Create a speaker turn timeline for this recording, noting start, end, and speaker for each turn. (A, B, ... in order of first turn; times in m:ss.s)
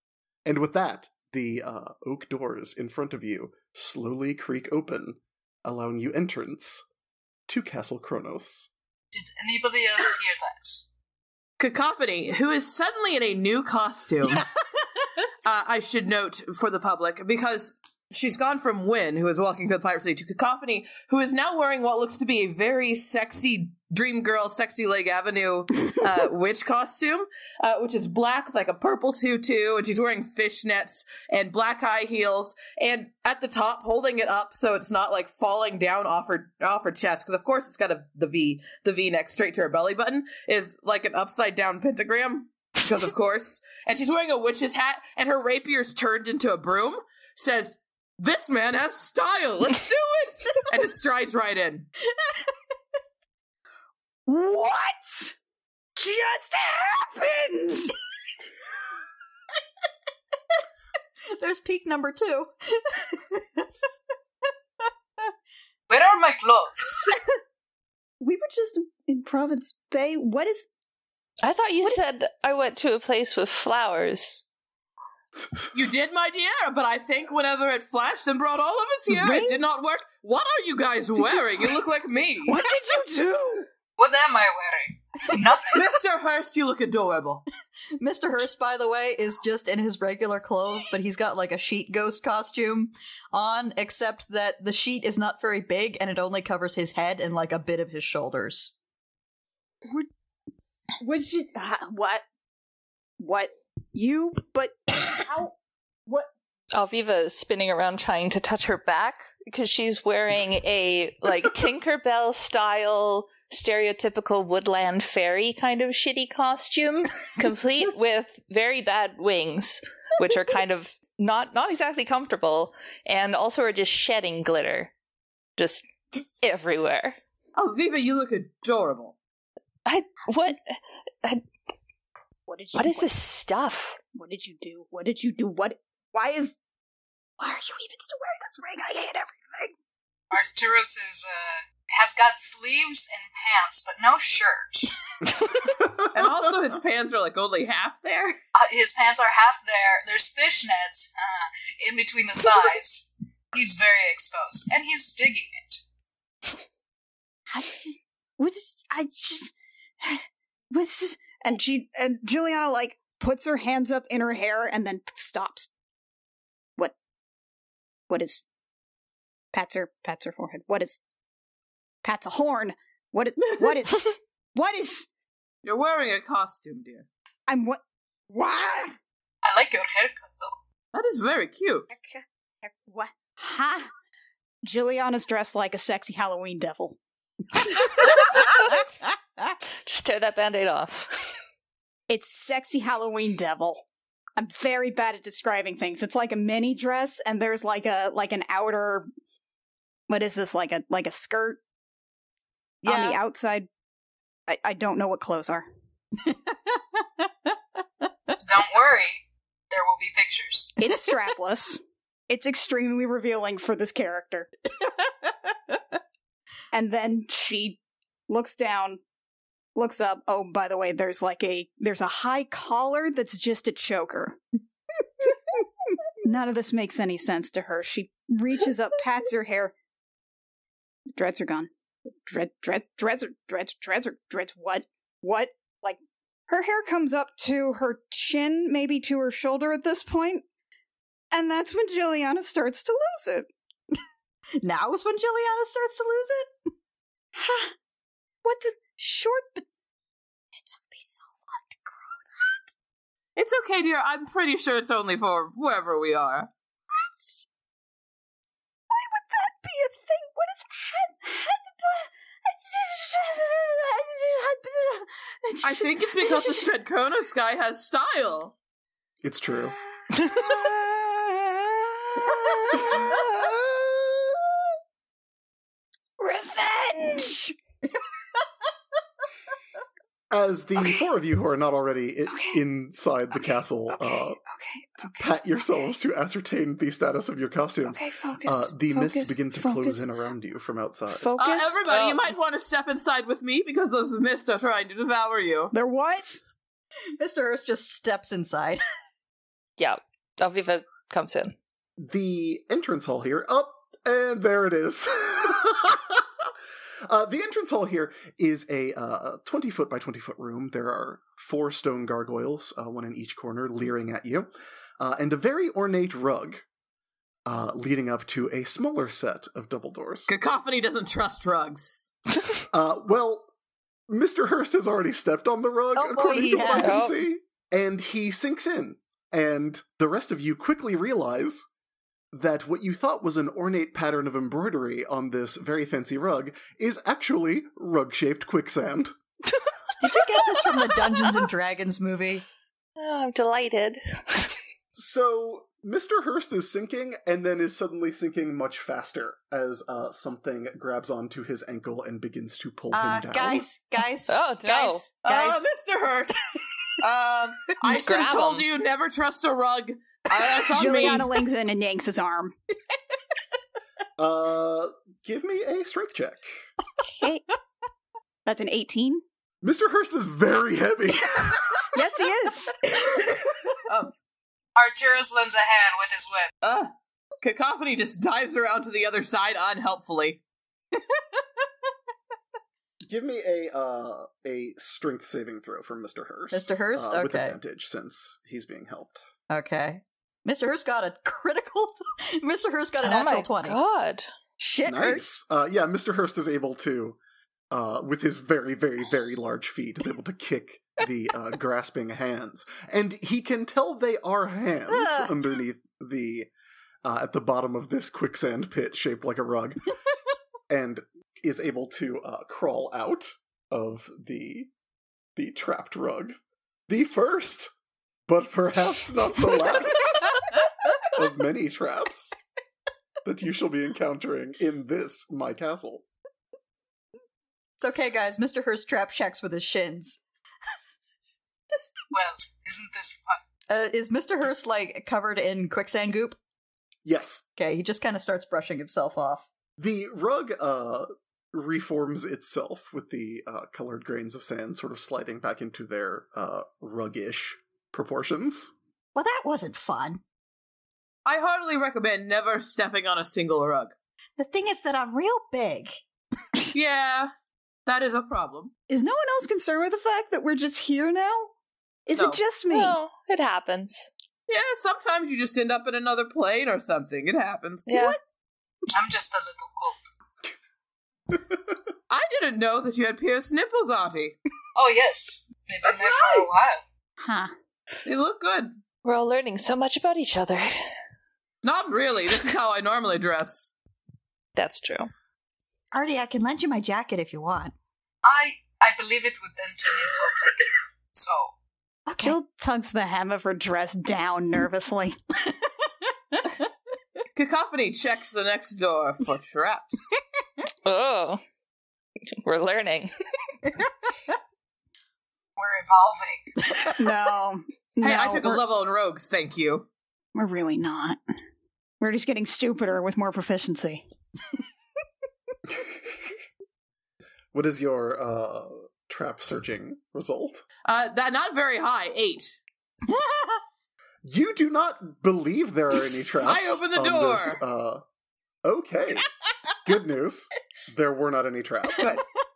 0:00.4-0:06.8 A
0:07.5-0:08.7 A
0:09.1-0:10.8 B
0:11.6-0:14.4 C
0:15.4-0:51.9 C
0:54.3-0:55.4 D
0:56.0-0:58.0 D
1:01.3-1:03.6 E
1:05.9-1:07.1 B
1:08.2-1:10.7 D
1:11.4-1:14.4 F
1:15.7-1:22.6 C
1:19.1-1:19.6 D
1:22.4-1:23.7 D
1:24.0-1:25.8 B
1:25.7-1:27.4 C
1:28.0-1:38.7 E
1:41.0-1:42.2 D
1:43.2-1:45.5 D
1:46.7-2:04.9 F
2:05.6-2:07.2 F
2:07.6-2:09.2 C
2:09.8-2:11.4 F
2:12.5-2:13.1 D
2:12.7-2:14.0 F
2:14.1-2:16.6 D
2:17.4-2:19.7 D
2:20.3-2:24.9 B
2:25.8-2:26.0 A
2:26.1-2:28.4 C
2:28.5-2:35.8 B
2:37.5-2:45.7 D
2:48.1-2:48.4 D
2:49.5-2:51.0 D
2:52.0-2:55.1 D
2:55.6-2:57.1 C
2:57.5-2:59.0 D
2:59.4-3:00.5 B
3:00.9-3:01.9 C
3:01.9-3:03.9 D
3:04.6-3:07.0 D
3:08.0-3:08.8 F
3:09.8-3:11.1 F
3:12.1-3:13.8 D
3:14.4-3:19.1 D
3:20.1-3:21.6 D
3:22.8-3:23.2 E
3:22.8-3:23.7 D
3:24.5-3:25.6 D
3:26.2-3:27.3 E
3:28.4-3:30.7 B
3:30.8-3:34.5 D
3:34.8-3:35.8 E
3:36.7-3:39.0 D
3:39.8-3:44.4 D
3:46.2-3:49.7 D
3:51.2-3:51.7 D
3:52.2-4:00.4 D
4:01.3-4:03.5 D
4:04.6-4:06.5 E
4:07.3-4:07.7 D
4:08.4-4:09.6 D
4:10.6-4:12.7 D
4:13.4-4:16.5 C
4:16.9-4:17.4 D
4:18.9-4:26.7 D
4:25.6-4:28.5 C
4:29.2-4:29.7 A
4:30.1-4:34.1 D
4:36.2-4:37.5 D
4:40.3-4:44.4 A
4:42.3-4:42.6 D
4:43.9-4:45.8 D
4:45.1-4:51.3 A
4:47.9-4:50.1 D
4:51.1-4:51.8 D
4:51.4-4:55.7 C
4:51.9-4:52.2 F
4:55.7-4:56.4 D
4:57.2-4:58.8 E
4:59.8-5:01.5 F
5:02.0-5:06.5 A
5:07.0-5:14.5 A
5:15.0-5:16.6 A
5:17.4-5:20.3 A
5:20.3-5:22.1 C
5:22.7-5:23.5 A
5:24.1-5:31.6 A
5:26.0-5:27.1 E
5:26.8-5:27.1 F
5:32.3-5:39.1 A
5:40.0-5:42.4 E
5:43.0-5:44.5 F
5:44.9-5:53.7 A
5:52.9-5:55.7 E
5:54.3-5:55.1 F
5:55.2-6:01.3 C
5:57.8-5:58.6 F
6:00.7-6:02.5 D
6:04.2-6:06.6 A
6:07.0-6:07.4 D
6:08.4-6:09.2 D
6:09.6-6:11.8 A
6:11.9-6:12.9 D
6:13.8-6:14.1 C
6:14.8-6:16.5 B
6:16.6-6:20.4 C
6:23.0-6:29.2 A
6:26.5-6:27.6 E
6:29.5-6:33.8 E
6:33.0-6:34.3 F
6:34.6-6:35.3 D
6:34.8-6:37.2 A
6:37.7-6:46.5 A
6:44.9-6:45.3 E
6:47.0-6:49.9 A
6:50.7-6:54.7 A
6:55.4-6:57.7 A
6:58.3-7:00.4 A
7:01.0-7:02.3 A
7:03.2-7:06.0 A
7:07.8-7:10.2 E
7:12.1-7:13.4 B
7:13.7-7:16.4 E
7:17.0-7:17.4 A
7:17.6-7:19.5 E
7:19.8-7:28.7 A
7:29.1-7:30.2 E
7:31.2-7:33.9 C
7:34.4-7:36.0 E
7:36.7-7:37.3 C
7:37.8-7:38.7 C
7:38.9-7:41.5 D
7:42.0-7:43.0 D
7:42.1-7:42.4 C
7:42.7-7:44.1 F
7:44.5-7:47.9 C
7:47.9-7:48.2 F
7:47.9-7:48.2 D
7:48.9-7:50.0 B
7:52.1-7:54.4 C
7:54.7-7:56.8 B
7:57.2-7:57.5 D
7:58.0-7:58.8 C
7:59.0-8:00.8 F
8:01.6-8:03.7 C
8:04.5-8:05.1 F
8:05.9-8:07.7 E
8:08.2-8:11.5 B
8:12.1-8:12.3 E
8:12.2-8:15.2 D
8:17.3-8:20.1 C
8:20.8-8:21.4 F
8:22.4-8:23.1 F
8:25.6-8:26.6 B
8:27.0-8:28.6 D
8:28.0-8:29.9 C
8:30.3-8:31.2 D
8:32.0-8:34.0 D
8:35.7-8:36.0 A
8:37.5-8:40.6 A
8:40.8-8:42.6 C
8:43.1-8:43.4 E
8:44.2-8:48.0 A
8:46.4-8:47.6 C
8:48.6-8:49.3 A
8:49.8-8:52.2 A
8:52.0-8:52.2 C